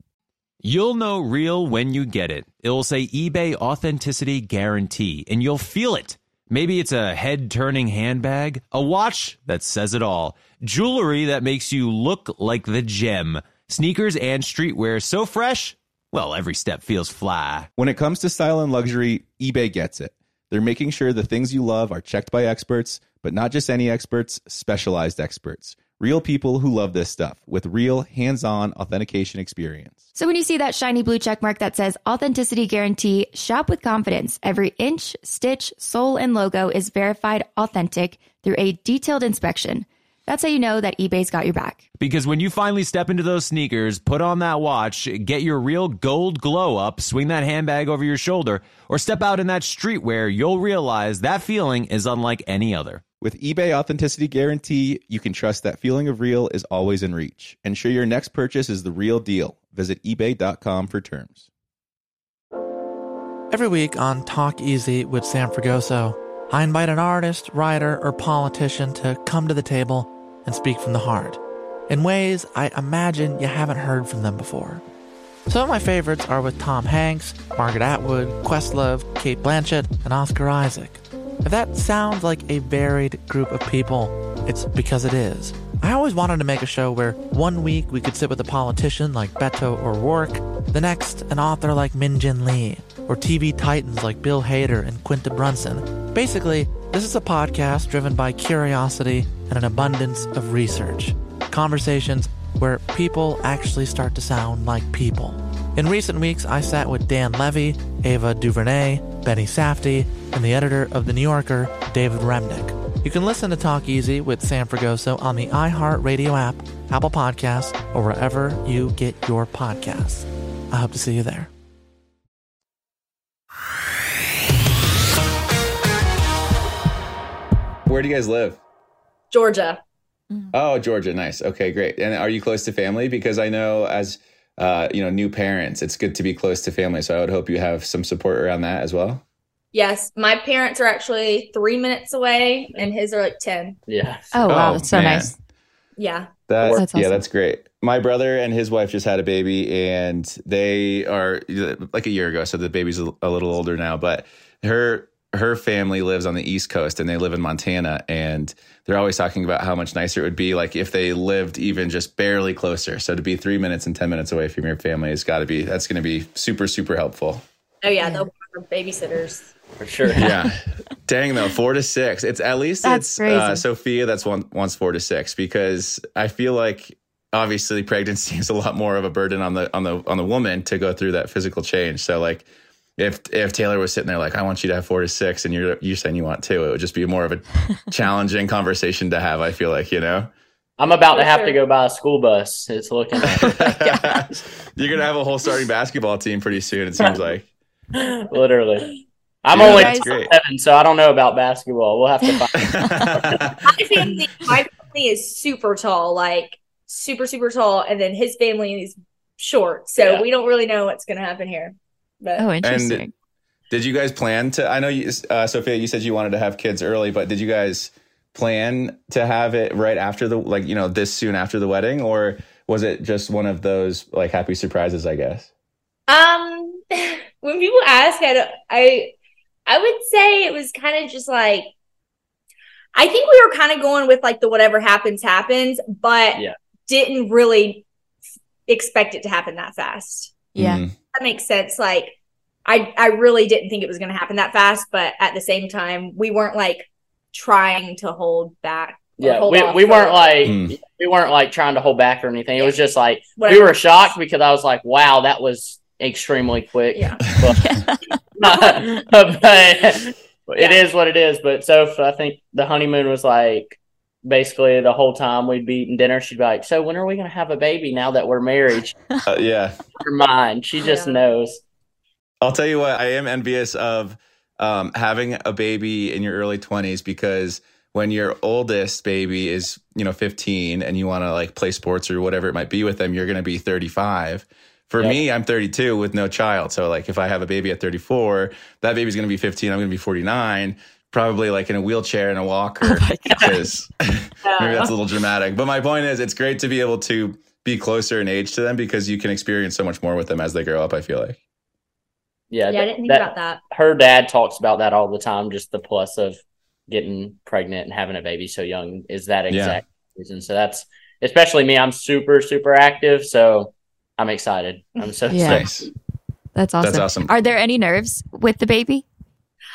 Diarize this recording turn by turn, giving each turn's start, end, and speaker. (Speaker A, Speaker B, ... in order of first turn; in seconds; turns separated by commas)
Speaker A: 0.6-17.7, Speaker B: 17.8-30.0, Speaker C: 30.1-41.9, Speaker A: 42.0-53.0, Speaker B: 53.2-61.5, Speaker D: 63.5-74.8, Speaker D: 75.5-121.5, Speaker E: 127.9-128.6, Speaker F: 129.3-129.8, Speaker E: 130.5-139.2, Speaker F: 139.7-143.8, Speaker G: 143.9-144.3, Speaker C: 144.3-145.3, Speaker E: 144.5-145.3, Speaker F: 146.0-146.3, Speaker E: 146.5-167.4, Speaker C: 146.6-147.2, Speaker F: 167.8-169.5, Speaker C: 168.0-168.3, Speaker G: 169.8-170.3, Speaker E: 170.2-190.3, Speaker C: 172.8-173.6, Speaker G: 190.8-193.5, Speaker F: 191.1-191.6, Speaker E: 193.3-197.5, Speaker C: 193.3-194.2, Speaker G: 197.9-198.9, Speaker G: 199.4-202.8, Speaker E: 199.5-200.3, Speaker C: 199.6-200.1, Speaker E: 202.6-203.6, Speaker F: 203.6-212.5, Speaker G: 210.0-210.2, Speaker C: 212.4-213.1, Speaker E: 212.6-213.0, Speaker E: 213.7-225.5, Speaker F: 226.1-229.1, Speaker F: 229.7-231.7, Speaker F: 232.9-237.8, Speaker F: 238.7-240.5, Speaker C: 240.6-240.8, Speaker E: 240.6-240.9, Speaker F: 241.1-242.2, Speaker F: 242.7-250.5, Speaker G: 249.2-257.6, Speaker E: 250.4-250.8, Speaker F: 253.4-254.1, Speaker F: 256.9-257.2, Speaker C: 257.5-258.2, Speaker G: 258.4-269.0, Speaker E: 269.3-269.8, Speaker G: 270.0-271.6, Speaker F: 270.8-271.3, Speaker E: 272.4-301.4, Speaker C: 292.8-293.6, Speaker F: 294.4-294.9, Speaker G: 302.5-306.4, Speaker F: 302.7-303.6, Speaker G: 306.9-315.7, Speaker E: 309.5-309.8, Speaker C: 315.3-315.7, Speaker E: 315.4-315.9, Speaker C: 316.6-319.1, Speaker E: 316.8-317.3